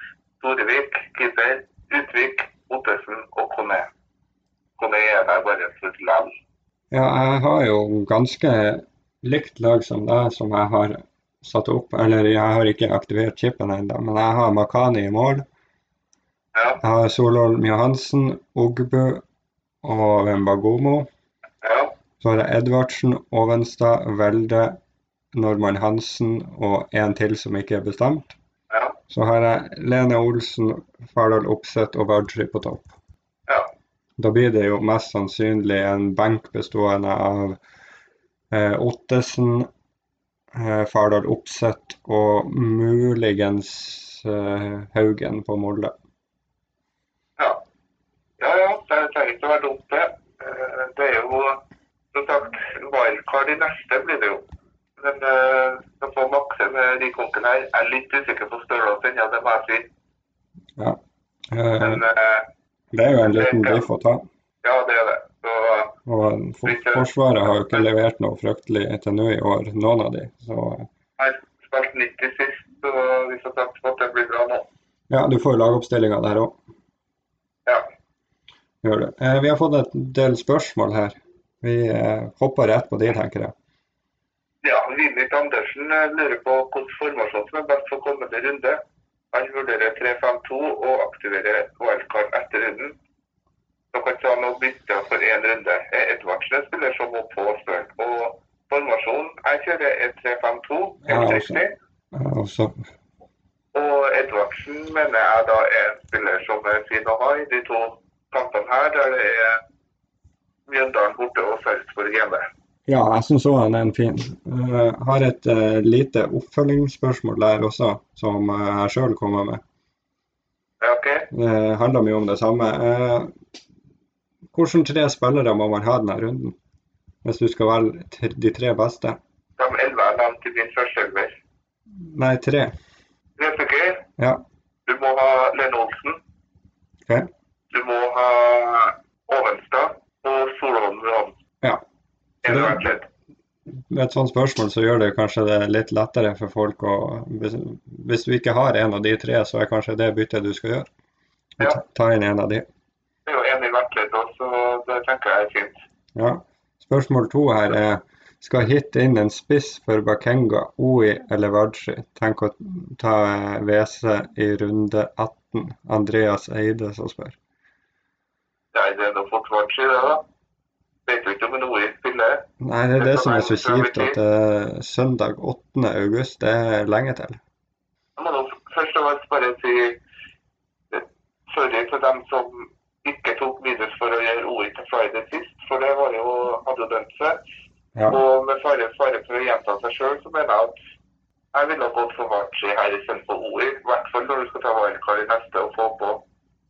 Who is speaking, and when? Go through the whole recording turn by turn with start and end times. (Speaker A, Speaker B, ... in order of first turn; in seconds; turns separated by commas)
Speaker A: 0.4-3.9, Speaker A: 4.8-6.3, Speaker B: 6.9-15.4, Speaker A: 16.5-16.8, Speaker B: 16.8-19.2, Speaker B: 19.8-21.1, Speaker A: 21.6-21.9, Speaker B: 22.2-24.8, Speaker B: 25.3-28.3, Speaker A: 28.7-29.0, Speaker B: 29.1-32.9, Speaker B: 34.2-37.6, Speaker B: 38.5-39.7, Speaker B: 40.5-45.9, Speaker A: 48.4-51.6, Speaker A: 52.1-54.4, Speaker A: 55.0-59.9, Speaker B: 61.5-62.0, Speaker A: 61.8-62.5, Speaker B: 62.9-64.2, Speaker A: 63.2-63.9, Speaker A: 64.6-65.9, Speaker B: 66.0-70.9, Speaker A: 66.6-67.9, Speaker A: 71.2-74.7, Speaker B: 75.1-76.6, Speaker B: 78.8-83.5, Speaker A: 84.6-88.8, Speaker A: 89.3-93.0, Speaker A: 93.9-101.7, Speaker B: 101.0-101.6, Speaker B: 102.1-102.7, Speaker A: 103.7-109.6, Speaker A: 110.7-112.4, Speaker B: 112.9-119.6, Speaker A: 120.8-121.3, Speaker B: 121.3-123.3, Speaker B: 124.5-126.5, Speaker B: 127.2-129.2, Speaker A: 129.6-131.3, Speaker B: 132.0-132.7, Speaker A: 133.4-134.0, Speaker A: 134.8-136.2, Speaker A: 137.7-141.3, Speaker B: 142.4-142.8, Speaker A: 142.4-143.1, Speaker B: 143.9-150.9, Speaker B: 151.6-152.7, Speaker A: 153.2-155.8, Speaker B: 156.1-167.4, Speaker A: 168.7-170.2, Speaker A: 171.1-172.4, Speaker B: 172.6-177.4, Speaker A: 173.0-174.2, Speaker A: 178.2-180.0, Speaker A: 180.9-187.4, Speaker A: 188.1-190.7, Speaker A: 191.5-196.2